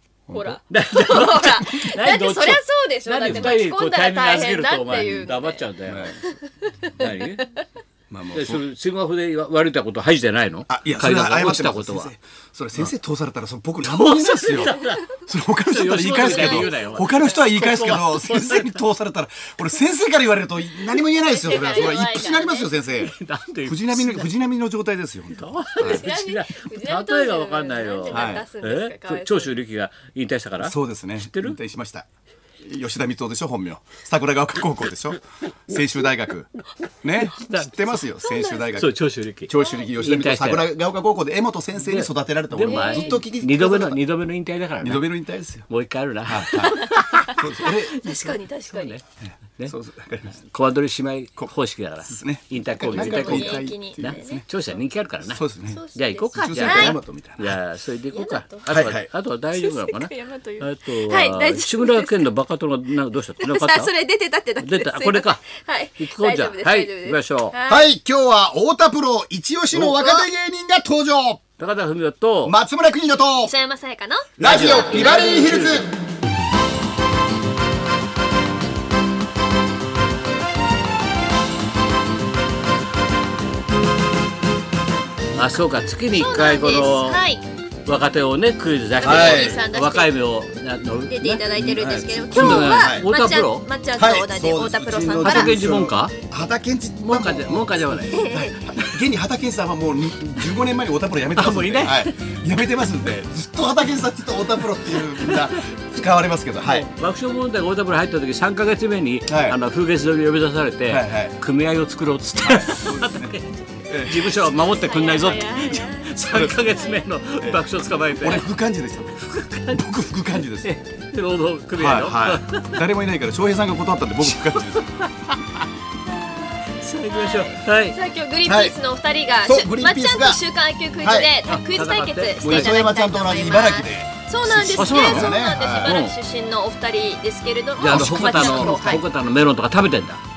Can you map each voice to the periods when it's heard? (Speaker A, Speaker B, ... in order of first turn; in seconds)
Speaker A: 0.3-0.6, 3.2-3.5, 4.9-5.3, 5.8-6.2, 8.1-8.6, 10.7-26.1, 28.1-28.4, 30.6-32.0, 32.6-36.5, 37.0-38.9, 39.5-44.0, 44.8-45.7, 46.2-48.0, 49.2-50.4, 52.1-54.4, 55.3-55.8, 56.3-57.6, 58.7-59.1, 67.7-71.4, 72.4-73.5, 74.4-75.9, 89.0-89.6, 91.5-93.0, 94.0-106.9, 109.3-109.6, 110.9-111.3, 112.4-113.3, 113.9-114.4, 116.3-116.7, 118.2-120.7, 121.8-124.9, 128.4-128.7, 129.4-130.4, 131.0-131.3, 132.4-136.0, 137.8-139.0
Speaker B: 0.3-5.7, 6.2-7.6, 16.1-17.4, 21.2-22.8, 25.8-29.5, 38.2-38.6, 39.6-39.9, 42.6-43.1, 46.7-49.0, 52.8-54.4, 55.7-57.0, 58.1-58.6, 59.5-62.3, 63.4-67.9, 69.9-70.3, 73.4-75.7, 86.1-87.4, 89.0-90.1, 91.1-95.6, 98.0-98.8, 114.8-117.1, 126.1-139.0
Speaker C: 0.7-6.2, 7.0-7.4, 8.3-12.1, 13.8-18.8, 23.0-24.3, 25.4-31.6, 37.1-38.0, 38.7-40.7, 41.8-45.0, 45.7-49.0, 50.3-55.4, 55.9-63.9, 64.6-65.4, 66.0-67.5, 71.6-72.5, 74.4-75.9, 85.3-87.2, 87.8-91.5, 92.3-93.7, 95.2-96.1, 97.0-99.0, 101.3-102.4, 104.8-105.8, 106.6-118.5, 119.2-119.9, 120.6-122.8, 124.2-125.7, 126.8-127.9, 131.4-132.8, 134.8-136.1, 137.8-140.2